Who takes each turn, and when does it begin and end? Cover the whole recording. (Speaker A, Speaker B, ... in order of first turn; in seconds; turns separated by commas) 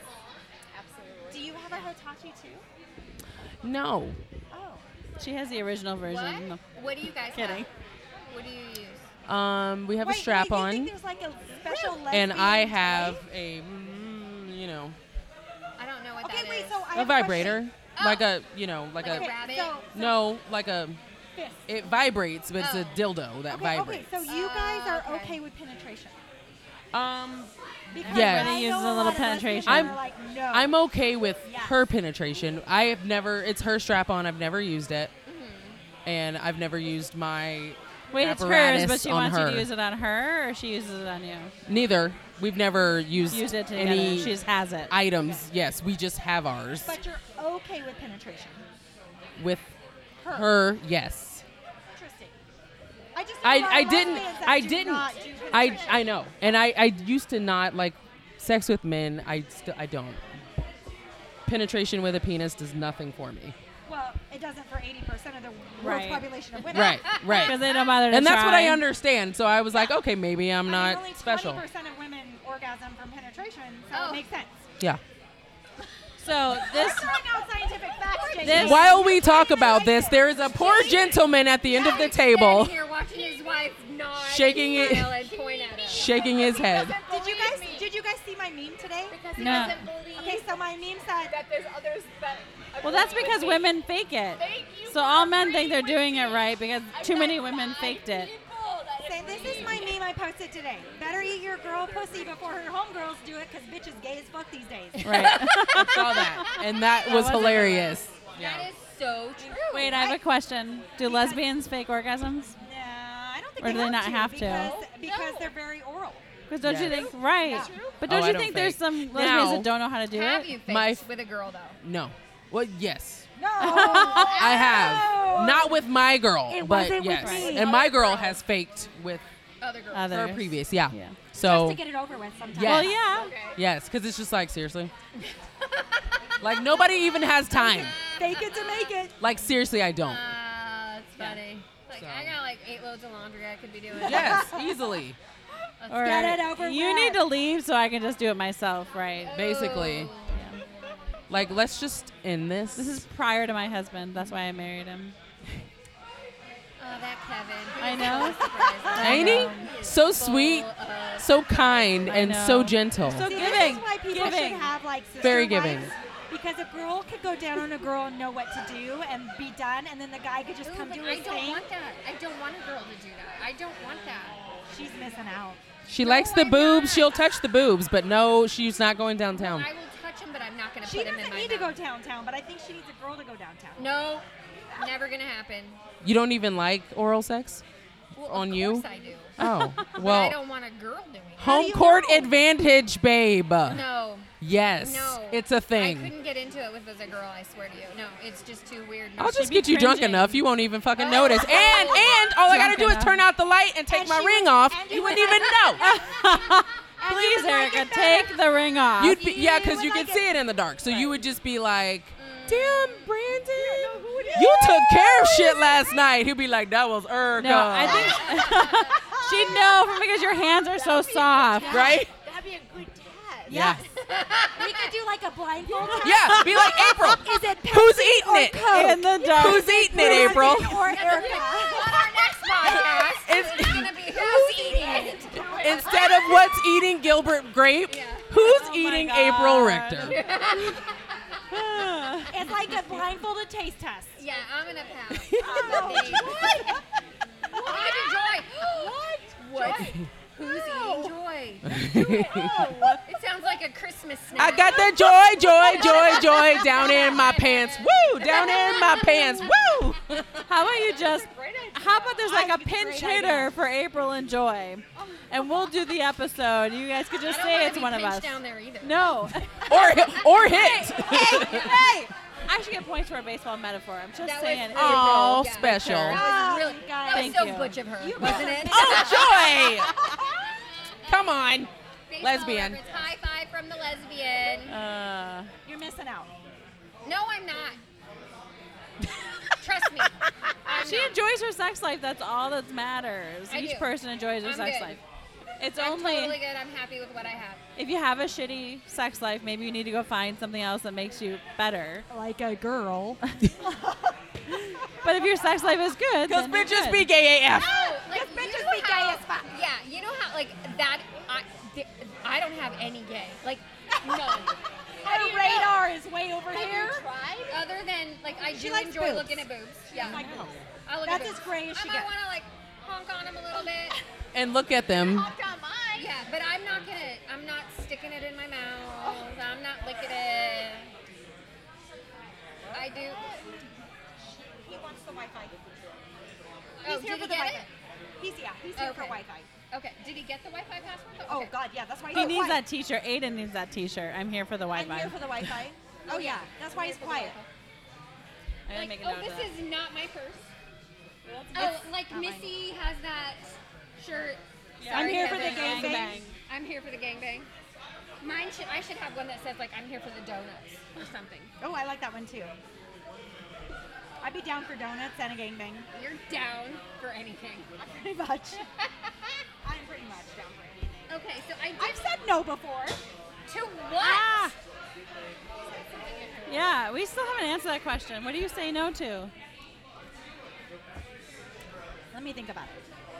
Speaker A: 0.7-1.5, Speaker B: 1.3-2.6, Speaker C: 3.6-4.2, Speaker B: 4.5-4.8, Speaker D: 5.2-6.6, Speaker E: 6.0-7.7, Speaker D: 7.2-7.7, Speaker E: 8.2-9.0, Speaker C: 9.2-10.9, Speaker B: 10.0-13.2, Speaker C: 12.1-15.0, Speaker E: 15.8-16.8, Speaker B: 16.2-17.6, Speaker C: 16.9-19.3, Speaker E: 17.9-18.3, Speaker E: 19.0-19.8, Speaker B: 19.0-20.2, Speaker C: 19.9-21.0, Speaker B: 21.3-21.9, Speaker C: 21.7-24.1, Speaker E: 22.6-23.0, Speaker B: 23.5-26.2, Speaker E: 24.2-25.4, Speaker C: 26.9-27.5, Speaker B: 27.9-30.8, Speaker D: 28.0-30.0, Speaker C: 28.0-28.5, Speaker C: 29.6-30.0, Speaker C: 30.5-35.1, Speaker B: 31.4-31.8, Speaker E: 35.2-35.8, Speaker C: 36.0-39.7, Speaker D: 38.1-41.5, Speaker C: 41.6-44.4, Speaker D: 43.3-44.9, Speaker C: 44.9-47.0, Speaker B: 46.8-48.6, Speaker C: 49.4-49.7, Speaker B: 50.2-50.5, Speaker C: 50.3-51.4, Speaker B: 51.9-52.4, Speaker B: 53.1-56.1, Speaker C: 53.4-60.2, Speaker A: 55.3-55.7, Speaker C: 61.5-63.5, Speaker B: 63.9-67.2, Speaker D: 65.8-66.3, Speaker C: 66.7-71.6, Speaker E: 66.7-67.5, Speaker D: 67.3-68.8, Speaker B: 70.6-74.7, Speaker E: 73.9-74.2, Speaker D: 76.2-77.1, Speaker B: 76.5-81.0, Speaker E: 78.4-78.7, Speaker D: 78.4-79.0, Speaker C: 78.5-82.8, Speaker E: 80.5-86.1, Speaker A: 83.2-83.7, Speaker C: 84.2-85.2, Speaker A: 85.2-87.9, Speaker C: 85.8-87.0, Speaker B: 87.0-89.2, Speaker A: 89.1-90.5, Speaker D: 89.4-89.9, Speaker B: 90.1-91.3, Speaker A: 91.2-93.7, Speaker D: 92.8-98.3, Speaker A: 94.3-100.0, Speaker B: 99.0-105.3, Speaker A: 101.7-102.4, Speaker D: 105.0-108.0, Speaker E: 105.1-106.6, Speaker C: 105.7-108.7, Speaker E: 108.3-110.1, Speaker B: 109.4-110.2, Speaker D: 109.7-112.5, Speaker B: 111.0-111.5, Speaker B: 112.6-116.3, Speaker D: 113.6-114.7, Speaker E: 114.6-115.5, Speaker D: 116.5-120.5, Speaker C: 116.6-117.1, Speaker E: 116.8-117.9, Speaker B: 117.5-117.9, Speaker A: 117.5-117.9, Speaker C: 118.0-119.7, Speaker E: 120.1-121.8, Speaker C: 120.7-121.0, Speaker C: 121.8-123.3, Speaker B: 123.3-125.8, Speaker D: 123.6-124.4, Speaker E: 124.1-125.2, Speaker C: 124.3-129.2, Speaker B: 126.5-127.7, Speaker D: 127.1-127.6, Speaker A: 127.6-128.4, Speaker E: 129.6-130.3, Speaker D: 129.9-131.2, Speaker C: 130.1-131.8, Speaker B: 131.3-132.9, Speaker C: 132.5-133.0, Speaker D: 132.6-133.3, Speaker E: 133.1-133.6, Speaker C: 133.5-134.9, Speaker E: 135.2-136.2, Speaker C: 136.4-137.9, Speaker E: 137.5-138.9, Speaker B: 138.2-139.2, Speaker C: 139.2-140.2, Speaker E: 140.0-144.5, Speaker C: 141.9-142.3, Speaker B: 144.0-144.7, Speaker C: 144.0-145.2, Speaker E: 145.8-146.4, Speaker D: 145.9-149.3, Speaker B: 146.0-147.3, Speaker E: 149.2-150.4, Speaker C: 149.3-150.1, Speaker D: 150.3-150.6, Speaker C: 151.3-153.0, Speaker D: 152.7-155.1, Speaker E: 156.8-162.1, Speaker D: 157.8-159.8, Speaker B: 158.0-159.3, Speaker C: 159.0-163.3, Speaker D: 162.0-164.7, Speaker B: 163.0-171.6, Speaker C: 165.2-165.9, Speaker E: 170.6-174.4, Speaker B: 174.7-175.6, Speaker C: 175.9-179.7, Speaker E: 176.0-177.2, Speaker E: 179.3-181.8, Speaker B: 180.8-184.0, Speaker E: 183.8-185.8, Speaker C: 186.0-187.6, Speaker E: 188.1-189.4, Speaker C: 188.2-188.8, Speaker C: 189.4-190.4, Speaker E: 189.9-191.7, Speaker B: 191.4-192.4, Speaker C: 191.4-193.8, Speaker E: 193.7-199.6, Speaker C: 194.4-196.1, Speaker C: 199.2-205.8, Speaker D: 199.3-200.4, Speaker E: 200.9-202.3, Speaker B: 201.5-201.9, Speaker D: 202.4-203.2, Speaker B: 203.9-208.3, Speaker E: 205.3-205.7, Speaker D: 205.8-209.2, Speaker C: 207.1-207.5, Speaker C: 209.0-218.3, Speaker B: 209.0-210.3, Speaker D: 210.8-211.1, Speaker E: 212.2-213.1, Speaker B: 213.6-215.7, Speaker A: 213.9-214.6, Speaker D: 217.3-221.9, Speaker E: 217.8-219.0, Speaker B: 219.1-219.6, Speaker A: 220.7-223.6, Speaker B: 221.5-222.1, Speaker C: 221.7-222.1, Speaker B: 223.4-223.9, Speaker C: 223.5-223.8, Speaker E: 223.9-224.9, Speaker B: 224.5-232.9, Speaker D: 225.8-227.1, Speaker C: 226.0-231.0, Speaker D: 228.6-230.5, Speaker E: 230.0-236.3, Speaker C: 232.6-233.9, Speaker B: 234.1-236.4, Speaker C: 235.5-240.2, Speaker E: 237.9-238.3, Speaker D: 238.3-240.2, Speaker E: 240.0-241.6, Speaker D: 241.5-242.4, Speaker B: 242.3-244.2, Speaker E: 244.2-246.8, Speaker C: 245.2-246.6, Speaker B: 245.3-246.8, Speaker B: 247.5-251.2, Speaker E: 247.5-251.7, Speaker C: 249.7-250.1, Speaker C: 251.6-252.8, Speaker B: 251.7-253.0, Speaker E: 253.0-259.5, Speaker C: 254.3-260.5, Speaker B: 255.8-256.2, Speaker D: 260.4-271.7, Speaker E: 260.6-263.5, Speaker B: 262.2-263.4, Speaker B: 264.9-265.5, Speaker E: 267.2-269.1, Speaker E: 269.7-270.4, Speaker C: 269.7-271.7, Speaker B: 270.4-272.1, Speaker D: 272.5-276.2, Speaker E: 274.2-281.4, Speaker C: 274.7-276.2, Speaker B: 276.1-280.2, Speaker D: 277.1-277.8, Speaker C: 278.2-279.9, Speaker C: 281.0-282.8, Speaker E: 282.1-284.8, Speaker D: 284.7-285.5, Speaker B: 285.6-286.3, Speaker E: 287.0-287.8, Speaker E: 289.6-291.2, Speaker D: 290.7-295.0, Speaker E: 293.5-295.0, Speaker D: 295.6-296.4, Speaker E: 295.7-297.6, Speaker D: 297.8-302.1, Speaker B: 302.1-305.1, Speaker D: 304.5-307.1, Speaker C: 306.2-307.7, Speaker E: 307.5-315.7, Speaker B: 307.6-309.5, Speaker B: 315.0-317.1, Speaker A: 316.4-317.7, Speaker E: 317.5-320.2, Speaker B: 318.4-322.1, Speaker C: 320.0-320.6, Speaker E: 320.9-324.0, Speaker C: 324.3-325.3, Speaker A: 325.0-326.1, Speaker E: 325.9-330.9, Speaker E: 332.7-333.2, Speaker A: 333.2-333.5, Speaker B: 334.2-335.6, Speaker E: 336.8-337.7, Speaker B: 336.8-337.7, Speaker B: 338.2-339.5, Speaker E: 338.8-341.5, Speaker B: 341.2-342.6, Speaker D: 342.1-345.5, Speaker B: 344.7-347.4, Speaker E: 346.1-347.5, Speaker D: 348.7-349.5, Speaker E: 348.7-350.5, Speaker D: 351.2-351.8, Speaker E: 351.5-357.5, Speaker B: 351.5-352.6, Speaker D: 354.8-356.4, Speaker B: 354.9-356.2, Speaker E: 358.2-361.5, Speaker B: 361.6-362.6, Speaker B: 364.2-365.9, Speaker E: 365.9-367.7, Speaker B: 367.8-368.7, Speaker E: 368.8-369.3, Speaker B: 369.6-371.1, Speaker E: 371.1-372.0, Speaker B: 371.8-373.0, Speaker E: 373.5-374.5, Speaker B: 373.9-374.5, Speaker A: 375.8-376.5, Speaker D: 376.5-379.3, Speaker B: 382.1-382.8